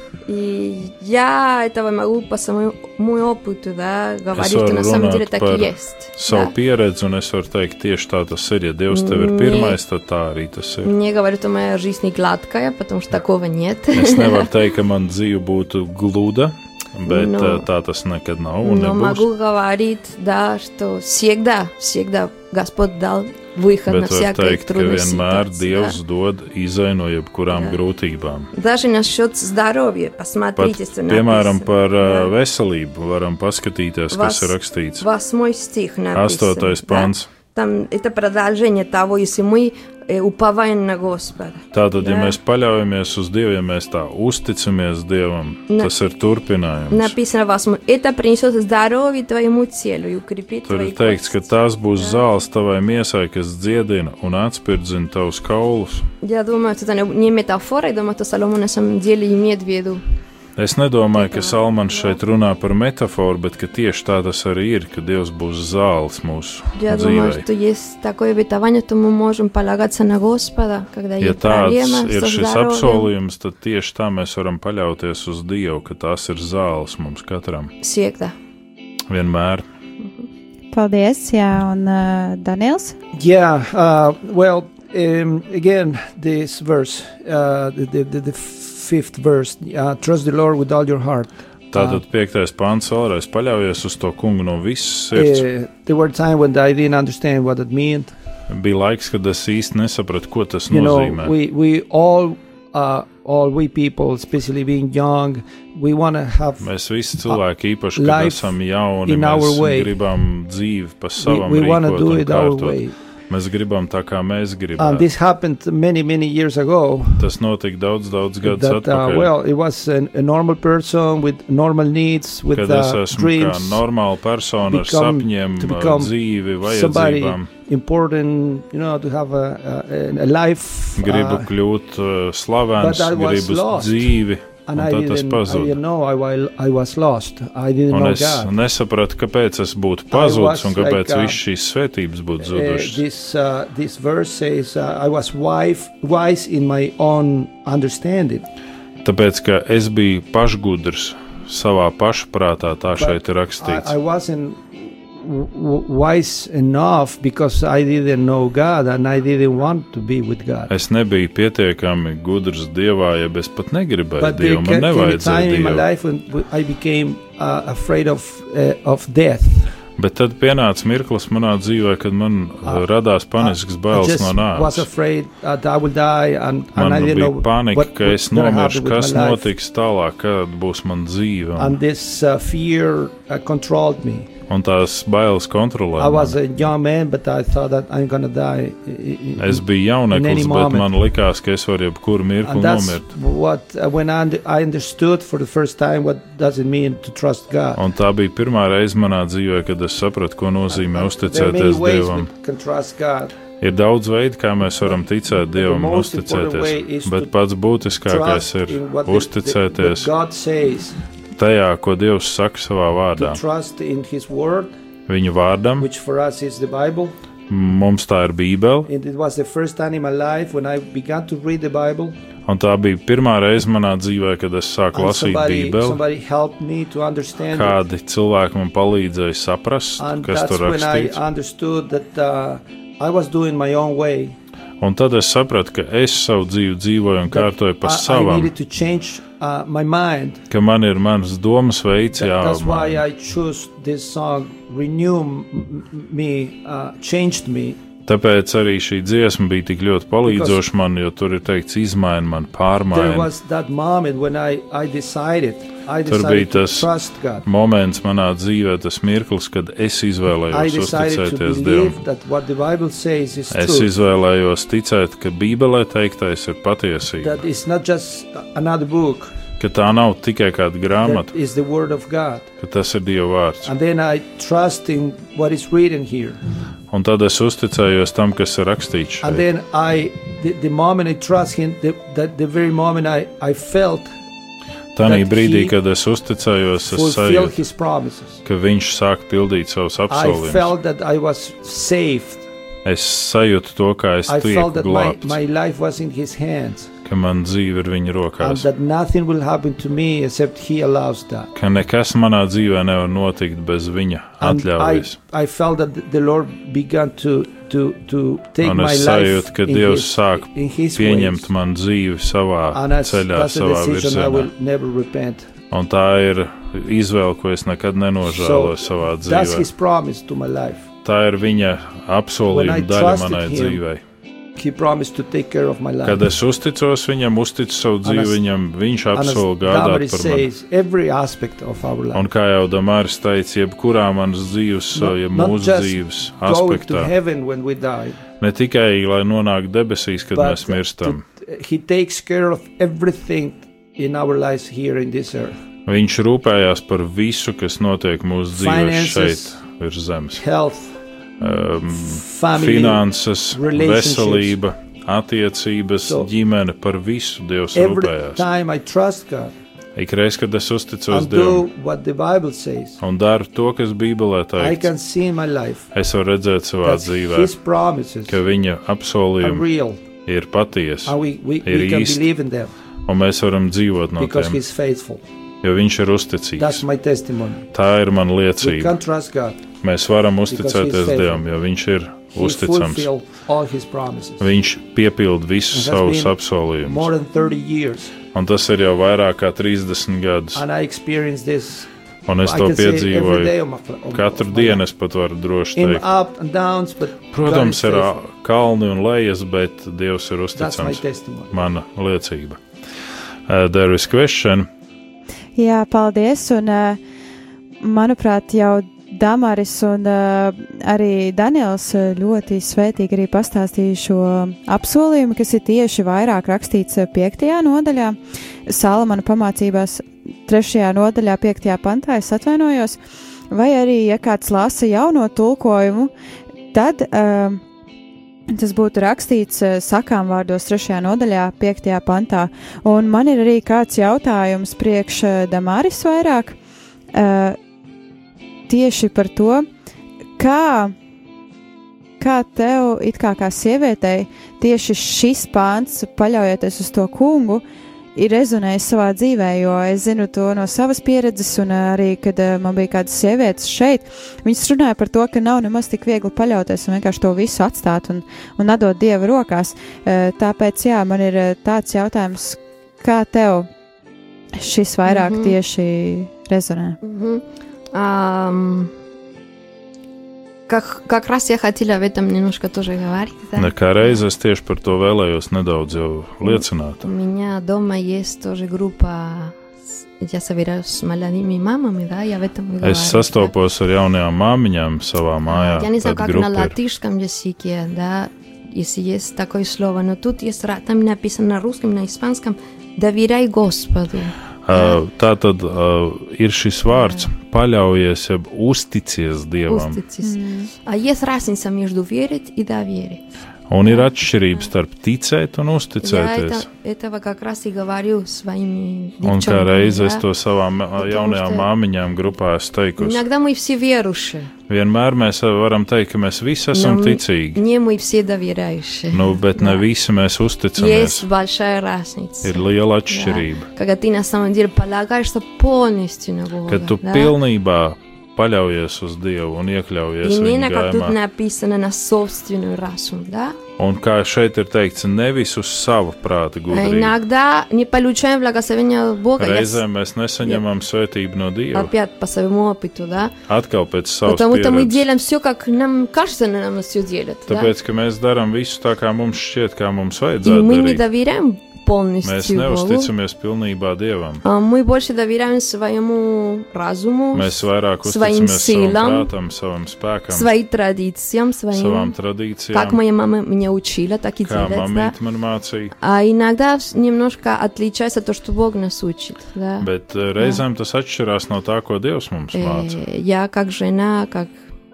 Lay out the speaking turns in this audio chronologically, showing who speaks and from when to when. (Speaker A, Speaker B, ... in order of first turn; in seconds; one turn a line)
Speaker A: 0.3-6.5
Speaker B: 4.3-10.9
Speaker A: 8.9-9.8
Speaker A: 10.8-14.5
Speaker B: 13.9-19.3
Speaker A: 17.1-17.7
Speaker A: 18.6-26.0
Speaker B: 23.9-28.5
Speaker A: 27.5-27.8
Speaker A: 28.5-32.3
Speaker B: 30.6-35.1
Speaker A: 34.1-42.4
Speaker B: 36.1-37.3
Speaker B: 41.7-47.2
Speaker A: 46.9-52.3
Speaker B: 50.7-56.1
Speaker A: 56.2-60.0
Speaker B: 60.6-67.5
Speaker A: 61.1-62.2
Speaker A: 66.8-73.1
Speaker B: 71.2-77.7
Speaker A: 77.8-78.3
Speaker B: 79.1-79.7
Speaker A: 80.0-80.3
Speaker C: 80.7-83.0
Speaker D: 83.1-92.0
Speaker B: 91.7-95.5
Speaker D: 95.1-98.1
Speaker B: 98.5-101.3
Speaker D: 100.7-106.7
Speaker B: 106.6-115.1
Speaker D: 108.0-110.0
Speaker D: 111.2-113.0
Speaker D: 114.8-117.3
Speaker B: 117.2-119.3
Speaker D: 118.4-123.8
Speaker B: 122.5-127.5
Speaker D: 124.7-131.5
Speaker B: 131.0-135.8
Speaker D: 132.8-134.1
Speaker D: 134.7-138.5
Speaker B: 137.9-143.0
Speaker D: 140.1-141.4
Speaker D: 142.4-148.5
Speaker B: 149.0-153.9
Speaker D: 153.0-160.7
Speaker B: 160.7-165.9
Speaker D: 164.2-169.8
Speaker B: 170.0-174.9
Speaker D: 173.4-179.5
Speaker B: 176.8-181.8
Speaker D: 181.6-184.3
Speaker B: 184.5-186.4
Speaker D: 186.0-190.9
Speaker B: 189.4-193.1
Speaker D: 192.4-197.8
Speaker B: 197.8-202.3
Speaker D: 200.7-203.3
Speaker B: 203.6-210.1
Speaker D: 205.6-207.3
Speaker D: 208.1-211.0
Speaker B: 211.3-213.4
Speaker D: 213.2-214.7
Speaker B: 215.1-215.9
Speaker D: 215.8-217.2
Speaker B: 217.5-218.9
Speaker D: 218.9-222.2
Speaker B: 222.5-226.0
Speaker D: 224.9-227.8
Speaker B: 227.5-231.2
Speaker D: 230.0-234.4
Speaker B: 234.8-238.5
Speaker D: 237.3-240.4
Speaker B: 240.5-243.1
Speaker D: 242.2-247.8
Speaker B: 248.1-253.3
Speaker D: 250.2-250.6
Speaker D: 252.9-257.5
Speaker B: 256.1-256.9
Speaker B: 257.4-262.0
Speaker D: 260.5-263.9
Speaker B: 263.5-267.4
Speaker D: 267.2-269.3
Speaker B: 269.6-271.3
Speaker D: 271.0-272.5
Speaker B: 272.6-273.7
Speaker D: 273.6-276.4
Speaker B: 276.9-279.5
Speaker D: 279.2-284.1
Speaker B: 284.9-287.6
Speaker D: 285.0-285.7
Speaker D: 286.9-288.4
Speaker B: 288.4-290.7
Speaker D: 290.1-292.5
Speaker B: 292.9-295.4
Speaker D: 294.3-296.9
Speaker B: 297.1-298.7
Speaker D: 298.4-301.5
Speaker B: 301.6-305.2
Speaker D: 304.4-311.5
Speaker B: 308.6-314.5
Speaker D: 312.7-315.5
Speaker B: 315.7-319.7
Speaker D: 318.3-320.9
Speaker B: 321.0-324.0
Speaker D: 322.5-323.8
Speaker D: 324.6-326.2
Speaker B: 326.0-330.5
Speaker D: 328.0-328.4
Speaker D: 329.1-332.2
Speaker B: 332.1-337.1
Speaker D: 334.9-338.2
Speaker B: 338.4-341.2
Speaker D: 340.3-345.6
Speaker B: 345.9-350.4
Speaker D: 348.5-349.6
Speaker D: 350.4-351.0
Speaker B: 351.4-358.4
Speaker D: 351.6-354.6
Speaker D: 357.8-359.5
Speaker B: 360.0-361.7
Speaker D: 361.1-363.0
Speaker B: 363.0-364.9
Speaker D: 364.6-365.9
Speaker B: 365.9-367.5
Speaker D: 366.8-368.4
Speaker B: 368.3-369.7
Speaker D: 369.4-370.0
Speaker B: 370.2-372.2
Speaker D: 371.1-372.7
Speaker B: 373.1-374.6
Speaker D: 374.2-375.2
Speaker B: 375.6-376.9
Speaker D: 376.6-377.7
Speaker B: 377.7-379.0
Speaker D: 378.6-379.6
Speaker B: 379.8-383.1
Speaker D: 380.5-381.4
Speaker D: 382.3-384.4
Speaker B: 384.4-387.1
Speaker D: 385.7-388.2
Speaker B: 388.3-390.6
Speaker D: 390.6-391.9
Speaker B: 392.3-393.6
Speaker D: 392.4-394.8
Speaker B: 394.1-396.1
Speaker D: 395.8-398.1
Speaker B: 397.3-402.6
Speaker D: 400.6-401.6
Speaker B: 403.5-404.7
Speaker C: 405.6-407.0
Speaker C: 407.8-423.0
Speaker C: 423.5-426.1
Speaker C: 426.7-427.6
Speaker C: 428.5-436.6
Speaker C: 437.1-437.6
Speaker C: 438.7-439.7
Speaker C: 440.4-440.9
Speaker C: 442.2-447.6
Speaker C: 448.1-463.7
Speaker C: 464.6-467.0
Speaker A: 465.1-465.6
Speaker A: 467.0-468.9
Speaker A: 470.7-474.2
Speaker B: 473.6-477.1
Speaker A: 476.5-483.5
Speaker B: 482.8-486.8
Speaker A: 485.5-495.0
Speaker B: 494.7-500.0
Speaker A: 496.9-497.3
Speaker A: 499.7-503.2
Speaker C: 500.2-500.7
Speaker B: 503.7-506.7
Speaker A: 503.8-504.1
Speaker A: 506.0-510.2
Speaker B: 509.2-513.2
Speaker A: 511.0-511.7
Speaker A: 513.0-514.5
Speaker B: 514.7-517.6
Speaker A: 516.7-519.8
Speaker B: 519.1-521.3
Speaker A: 520.8-527.4
Speaker B: 522.4-523.7
Speaker B: 526.7-531.2
Speaker A: 530.2-533.6
Speaker B: 533.8-537.1
Speaker A: 536.7-539.8
Speaker B: 539.4-541.9
Speaker A: 541.7-543.3
Speaker B: 543.5-545.1
Speaker A: 544.2-547.7
Speaker B: 547.5-551.0
Speaker A: 550.4-553.1
Speaker B: 552.2-554.4
Speaker A: 554.4-559.3
Speaker B: 557.3-560.5
Speaker A: 560.3-562.1
Speaker B: 561.7-563.0
Speaker A: 562.7-565.1
Speaker B: 564.5-566.0
Speaker A: 566.0-570.6
Speaker B: 569.8-573.0
Speaker A: 572.5-574.5